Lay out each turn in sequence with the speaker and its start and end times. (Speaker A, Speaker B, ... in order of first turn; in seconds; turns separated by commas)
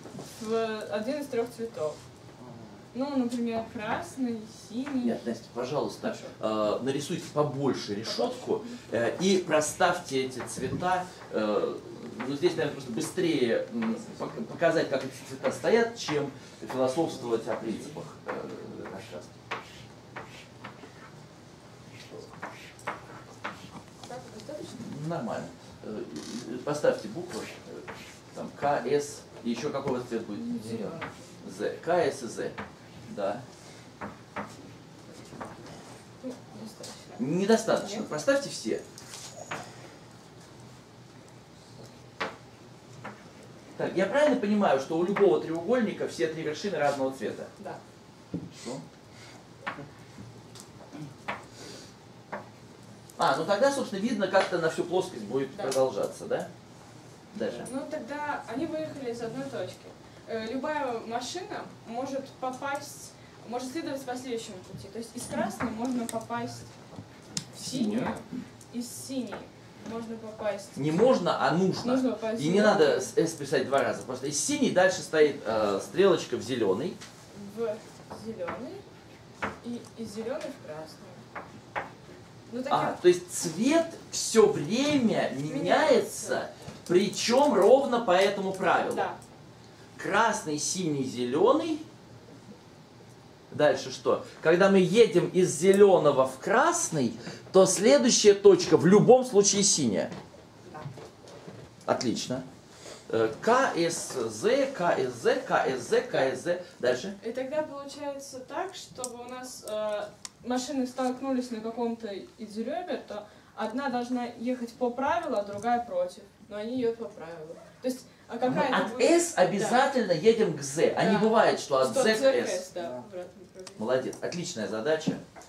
Speaker A: 0.4-2.0, Speaker A: 2.9-5.2, Speaker B: 5.0-19.3, Speaker A: 6.0-6.3, Speaker A: 8.0-8.8, Speaker A: 24.0-24.8, Speaker B: 24.7-33.4, Speaker A: 30.3-31.2, Speaker A: 36.2-38.1, Speaker B: 37.2-38.8, Speaker B: 43.8-47.5, Speaker B: 48.5-48.8, Speaker B: 53.2-56.5, Speaker A: 55.5-55.8, Speaker B: 57.3-57.7, Speaker A: 57.6-66.7, Speaker A: 67.5-71.1, Speaker B: 67.5-68.1, Speaker B: 70.8-77.0, Speaker A: 71.8-73.1, Speaker A: 77.3-78.8, Speaker A: 79.6-81.2, Speaker A: 82.5-83.0, Speaker B: 82.7-89.1, Speaker A: 85.5-86.4, Speaker A: 88.9-89.2, Speaker B: 90.0-91.8, Speaker B: 93.5-100.1, Speaker B: 101.8-102.4, Speaker B: 103.1-107.2, Speaker A: 107.2-119.8, Speaker B: 118.4-122.6, Speaker A: 121.0-123.8, Speaker B: 123.8-125.2